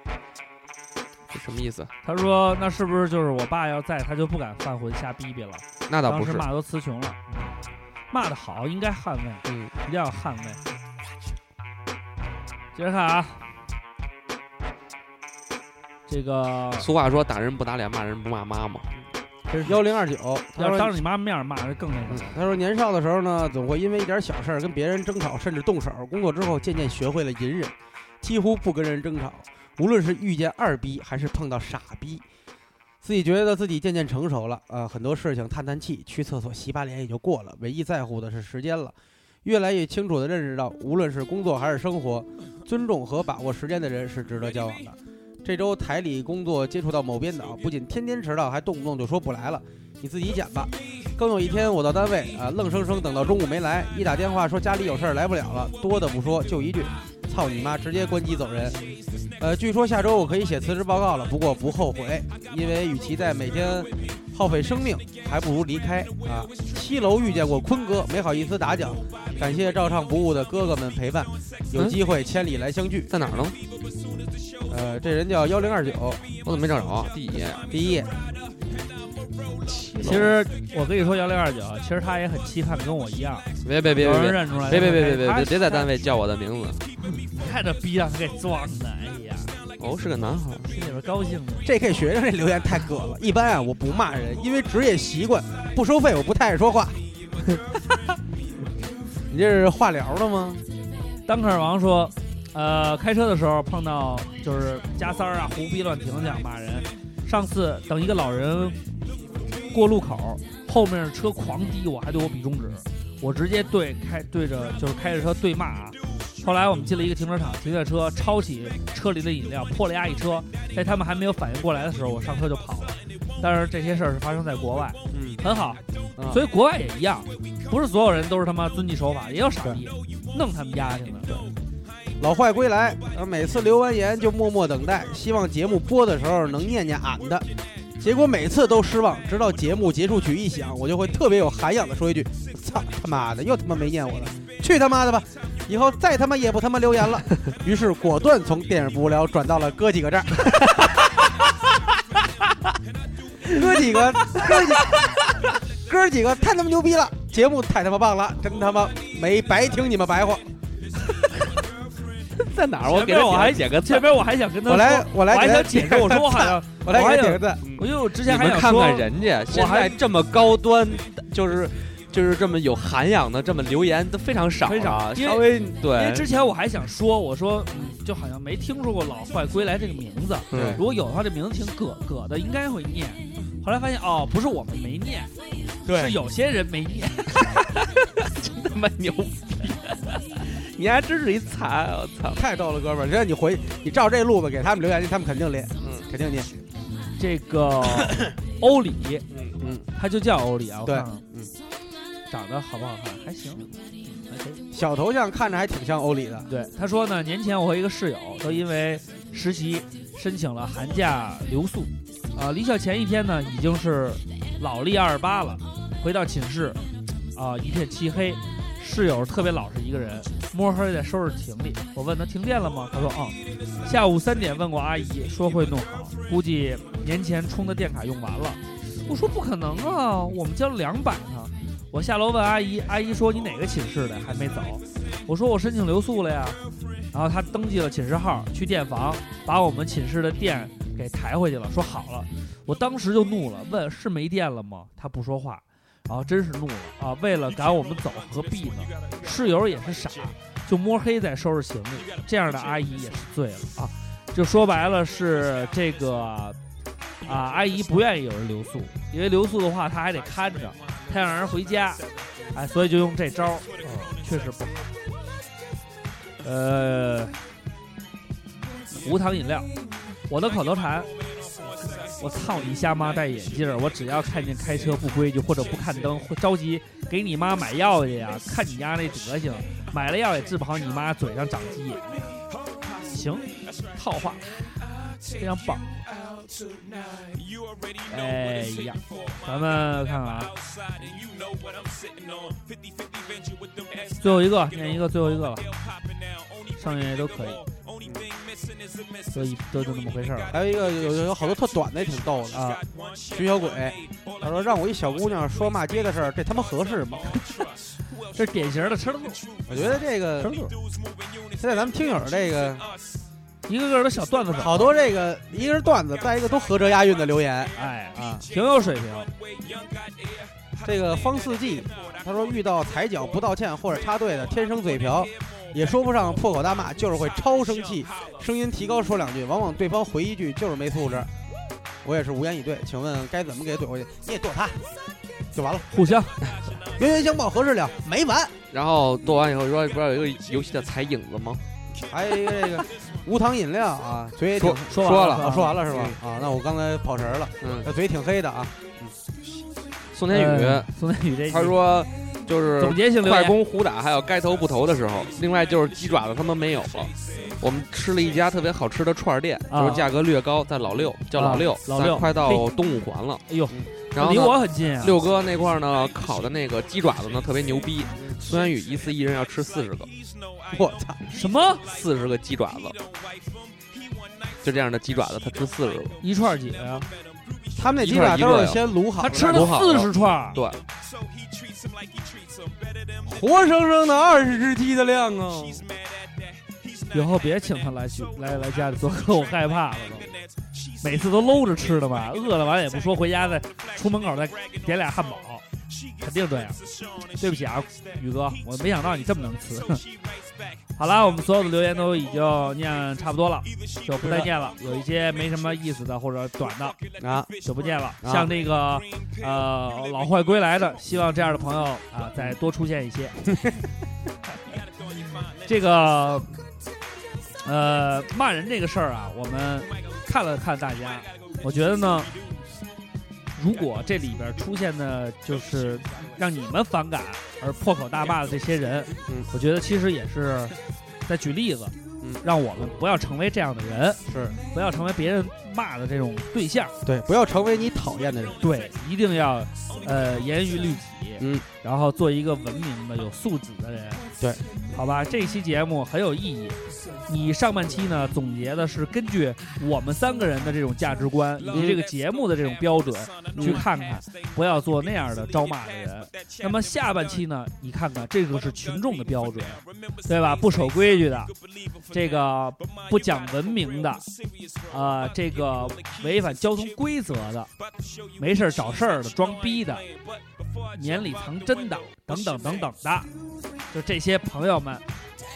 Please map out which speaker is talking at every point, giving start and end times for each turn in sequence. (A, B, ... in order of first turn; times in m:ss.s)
0:01.3-0:01.9 A
0:02.0-0:07.2 B
0:05.9-0:06.4 A
0:08.1-0:10.6 B
0:09.4-0:09.7 A
0:12.7-0:13.4 B
0:16.1-0:16.9 B
0:16.8-0:18.9 A
0:19.5-0:19.8 B
0:19.6-0:21.0 C
0:20.6-0:22.4 B
0:22.1-0:32.2 C
0:33.0-0:58.8 C
0:59.4-1:13.1 C
1:11.7-1:12.0 A
1:13.1-1:13.6 A
1:14.7-1:16.2 C
1:16.4-1:17.6 A
1:17.7-1:18.1 C
1:19.6-1:20.4 A
1:20.0-1:25.9 B
1:23.6-1:26.8 A
1:27.3-1:29.5 B
1:29.8-1:30.7 A
1:30.6-1:31.7 B
1:31.6-1:37.0 C
1:39.3-1:40.6 C
1:41.3-1:48.8 B
1:49.7-2:11.3 B
2:05.1-2:05.4 C
2:06.2-2:06.4 C
2:12.2-2:17.5 C
2:18.0-2:30.6 C
2:33.5-2:34.8 A
2:33.5-2:35.1 C
2:35.9-2:40.5 C
2:42.4-2:44.1 A
2:42.8-2:50.0 B
2:44.7-2:47.6 C
2:47.6-2:56.3 A
2:54.6-3:05.3 B
3:00.5-3:00.8 A
3:00.5-3:00.8 C
3:05.9-3:07.4 B
3:08.2-3:12.4 A
3:12.3-3:16.5 C
3:17.2-3:19.2 B
3:19.3-3:19.6 A
3:19.6-3:19.9 C
3:20.0-3:21.2 B
3:20.8-3:21.5 C
3:22.3-3:24.6 B
3:24.7-3:26.5 C
3:26.5-3:36.8 B
3:37.3-3:56.6 B
3:57.1-4:16.6 B
4:17.2-4:24.9 B
4:26.4-4:27.4 B
4:28.9-4:29.7 B
4:30.3-4:31.1 B
4:32.0-4:42.3 B
4:43.1-4:44.4 B
4:45.4-4:45.8 B
4:48.1-4:50.5 B
4:54.2-4:55.7 B
4:56.8-4:57.6 B
4:58.0-4:58.3 C
4:59.3-5:00.5 B
5:00.5-5:02.6 C
5:02.5-5:02.8 B
5:03.3-5:07.3 C
5:08.3-5:09.4 B
5:09.7-5:10.7 C
5:10.4-5:10.7 B
5:11.6-5:12.9 C
5:13.7-5:14.9 B
5:14.6-5:17.7 C
5:17.8-5:19.3 B
5:20.8-5:31.3 C
5:32.0-5:34.8 C
5:35.5-5:35.8 C
5:35.9-5:36.3 B
5:37.0-5:38.5 C
5:38.7-5:41.6 A
5:42.1-5:49.1 C
5:44.6-5:46.2 A
5:44.9-5:45.8 B
5:47.6-5:47.9 A
5:50.1-5:50.9 A
5:50.3-5:51.8 B
5:51.5-6:03.4 A
5:52.8-5:53.6 B
5:59.7-6:00.0 B
6:01.3-6:02.7 B
6:03.5-6:05.1 B
6:04.1-6:10.1 A
6:10.7-6:11.2 C
6:11.3-6:11.8 B
6:11.8-6:13.0 A
6:14.6-6:16.2 A
6:16.2-6:17.1 B
6:17.8-6:19.7 C
6:18.0-6:18.8 A
6:19.2-6:20.6 B
6:19.5-6:20.8 A
6:23.2-6:25.9 C
6:27.1-6:30.3 B
6:31.0-6:35.6 B
6:36.2-6:36.8 B
6:37.4-6:40.0 B
6:41.0-6:47.0 B
6:44.2-6:44.5 C
6:47.2-6:47.5 C
6:47.6-6:53.4 B
6:48.2-6:48.5 C
6:55.6-6:56.5 B
6:57.6-7:02.3 B
7:03.6-7:10.7 B
7:11.3-7:16.9 B
7:14.2-7:14.6 C
7:17.0-7:18.6 C
7:18.6-7:24.2 B
7:21.4-7:21.6 C
7:24.9-7:41.5 B
7:31.6-7:32.0 C
7:33.6-7:33.8 C
7:42.1-7:44.2 B
7:44.9-7:47.7 B
7:48.4-7:50.0 B
7:50.9-7:53.3 B
7:53.9-7:55.0 B